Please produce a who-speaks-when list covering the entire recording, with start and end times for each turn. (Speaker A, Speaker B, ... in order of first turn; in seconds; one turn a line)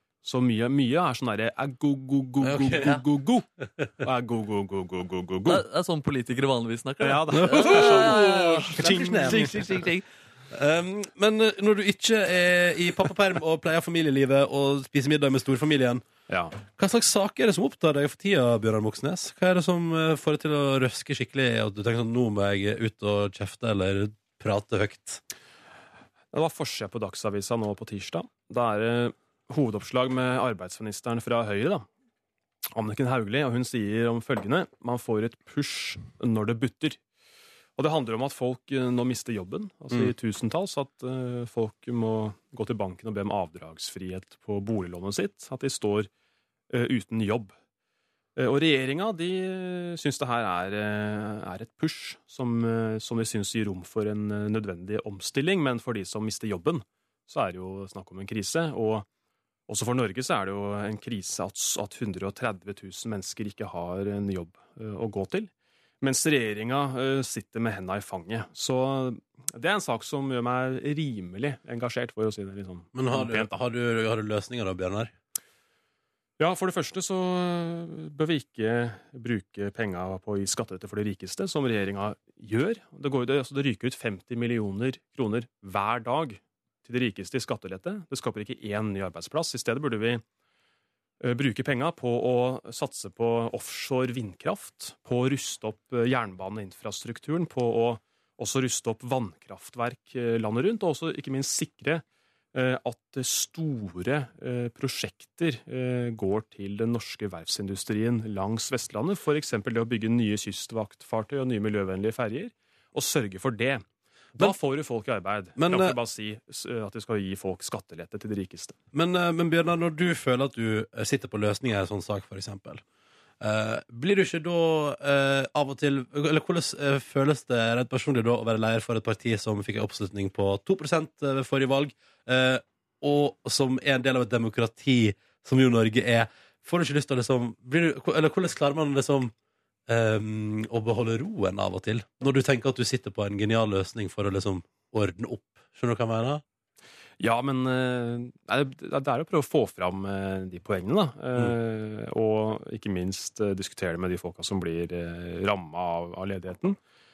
Speaker A: 0.2-3.5
Speaker B: 2.4-3.0
Speaker A: 4.0-5.7
Speaker C: 5.5-10.0
Speaker A: 7.0-9.6
Speaker B: 7.3-9.8
Speaker B: 10.5-16.1
Speaker A: 16.3-16.6
Speaker B: 16.7-25.2
Speaker A: 26.3-31.9
Speaker A: 32.7-37.0
Speaker A: 37.8-46.1
Speaker A: 46.7-47.5
Speaker A: 48.4-59.1
Speaker A: 59.7-73.5
Speaker B: 72.9-75.1
Speaker A: 76.4-90.2
Speaker A: 91.2-118.8
Speaker B: 115.6-116.0
Speaker B: 118.9-122.8
Speaker B: 123.4-139.3
Speaker B: 139.9-146.4
Speaker A: 147.2-156.8